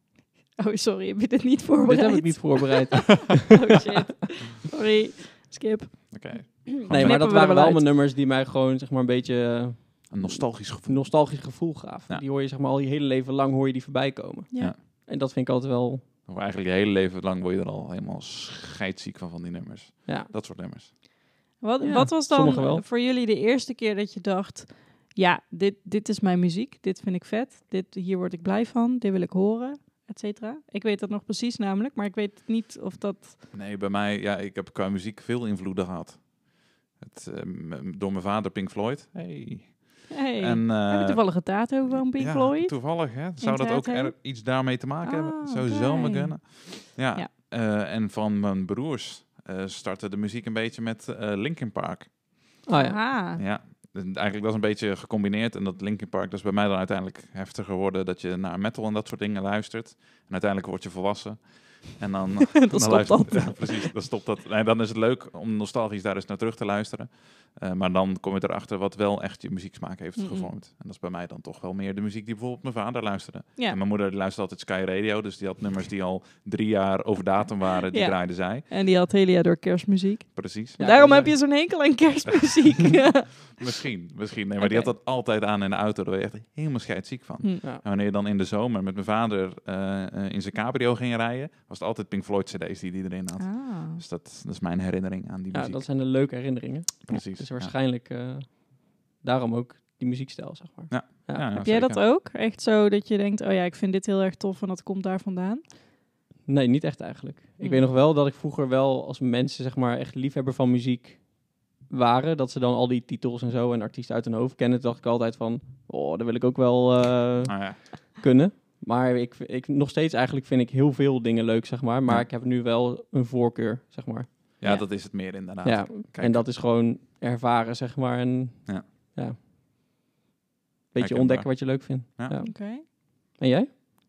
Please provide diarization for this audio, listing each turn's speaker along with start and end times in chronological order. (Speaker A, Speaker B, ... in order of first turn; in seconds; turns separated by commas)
Speaker A: 0.6-7.9, Speaker B: 1.8-3.4, Speaker C: 6.1-7.2, Speaker B: 6.9-16.1, Speaker C: 10.1-12.2, Speaker C: 16.2-20.9, Speaker B: 20.1-20.3, Speaker A: 21.6-33.4, Speaker B: 21.8-22.8, Speaker C: 33.5-52.2, Speaker A: 40.1-47.3, Speaker B: 52.6-53.0, Speaker A: 52.7-53.4, Speaker C: 53.3-78.7, Speaker A: 62.7-63.9, Speaker A: 70.2-70.5, Speaker A: 77.9-83.8, Speaker C: 80.3-80.8, Speaker B: 80.8-81.3, Speaker C: 82.3-96.0, Speaker A: 84.6-84.9, Speaker A: 93.4-94.0, Speaker B: 95.5-101.5, Speaker C: 97.1-97.7, Speaker C: 100.9-102.0, Speaker A: 101.6-105.6, Speaker B: 106.5-124.5, Speaker A: 107.6-107.8, Speaker C: 117.5-117.8, Speaker C: 124.6-126.5, Speaker A: 124.6-124.9, Speaker B: 125.6-129.4, Speaker B: 130.9-132.8, Speaker C: 131.0-132.4, Speaker A: 132.4-132.8, Speaker B: 133.4-133.7